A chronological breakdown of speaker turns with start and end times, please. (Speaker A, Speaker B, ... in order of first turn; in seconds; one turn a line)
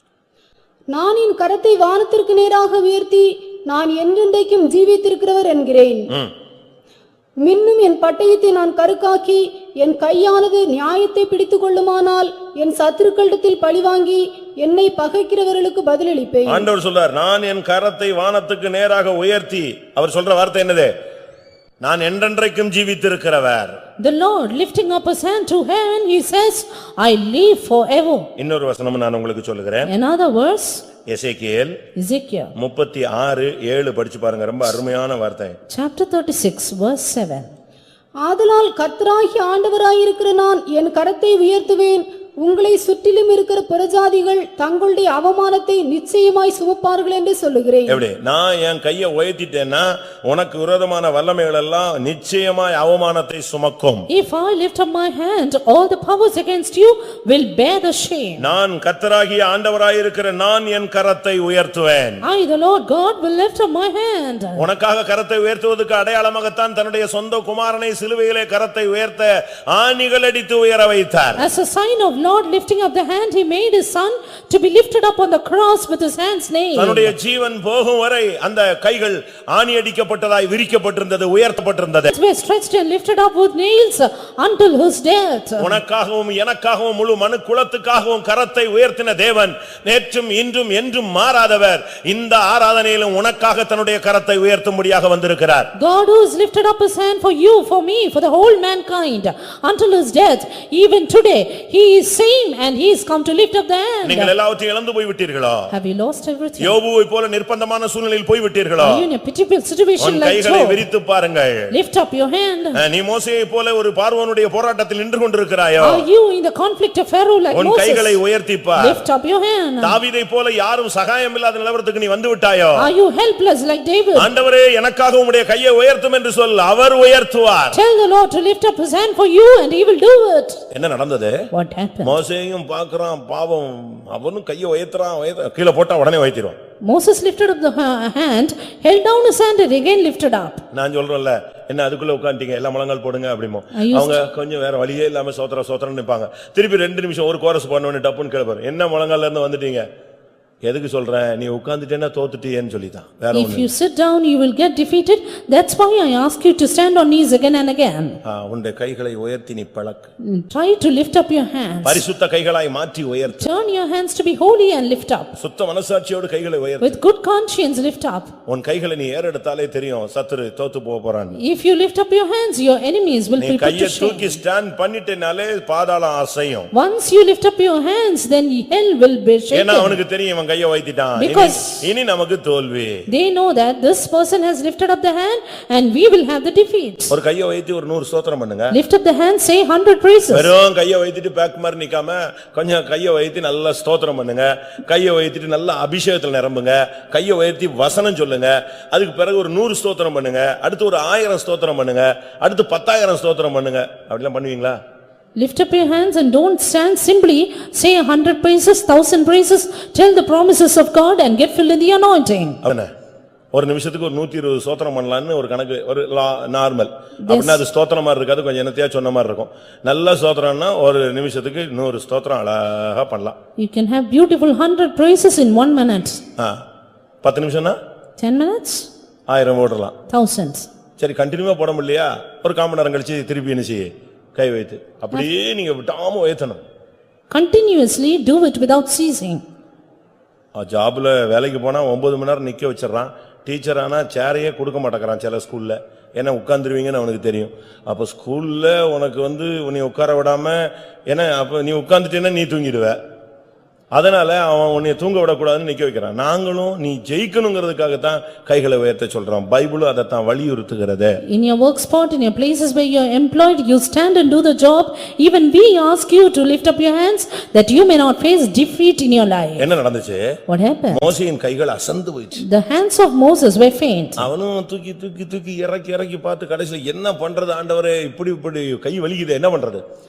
Speaker A: 0.9-6.1
Speaker A: 7.4-16.7
Speaker B: 16.5-20.9
Speaker B: 21.8-23.8
Speaker C: 24.0-28.3
Speaker B: 28.4-29.9
Speaker C: 29.9-30.8
Speaker B: 31.1-31.8
Speaker C: 32.0-32.5
Speaker B: 32.5-35.6
Speaker C: 35.7-37.5
Speaker A: 38.2-48.0
Speaker B: 47.9-54.1
Speaker C: 54.1-58.5
Speaker B: 58.4-62.2
Speaker C: 62.2-64.7
Speaker B: 64.6-71.5
Speaker C: 71.4-77.1
Speaker B: 76.8-82.1
Speaker C: 82.1-85.8
Speaker B: 85.6-95.7
Speaker C: 95.8-104.3
Speaker B: 104.0-105.7
Speaker C: 105.7-106.8
Speaker B: 106.6-109.0
Speaker C: 108.8-110.8
Speaker B: 110.0-111.7
Speaker C: 111.7-112.8
Speaker B: 112.8-116.0
Speaker C: 115.8-118.2
Speaker B: 117.5-119.0
Speaker C: 118.8-120.0
Speaker B: 119.8-122.9
Speaker C: 122.8-124.3
Speaker B: 124.2-127.8
Speaker C: 127.7-130.6
Speaker B: 130.7-131.4
Speaker C: 131.5-132.2
Speaker B: 132.0-136.6
Speaker C: 136.8-140.6
Speaker B: 140.7-149.9
Speaker C: 143.8-144.2
Speaker B: 150.6-153.7
Speaker C: 153.3-158.2
Speaker B: 158.2-160.1
Speaker C: 160.2-162.0
Speaker B: 161.8-163.5
Speaker C: 163.3-165.4
Speaker B: 165.4-167.0
Speaker C: 166.8-168.3
Speaker B: 168.5-171.4
Speaker C: 171.4-174.4
Speaker B: 173.4-176.7
Speaker C: 176.7-180.0
Speaker B: 179.5-183.1
Speaker C: 181.2-181.9
Speaker C: 183.1-187.2
Speaker B: 187.1-188.8
Speaker C: 188.7-190.5
Speaker B: 190.3-204.8
Speaker C: 205.4-212.6
Speaker B: 212.6-212.9
Speaker B: 213.5-223.4
Speaker C: 217.3-217.6
Speaker C: 223.6-226.2
Speaker B: 227.2-227.8
Speaker C: 228.2-228.9
Speaker B: 229.3-230.0
Speaker C: 230.1-230.7
Speaker B: 231.0-236.6
Speaker C: 237.3-239.4
Speaker B: 240.6-253.0
Speaker B: 253.9-261.2
Speaker C: 261.3-269.7
Speaker B: 269.6-270.4
Speaker C: 270.5-271.1
Speaker B: 270.9-272.4
Speaker C: 272.4-274.2
Speaker B: 274.2-279.8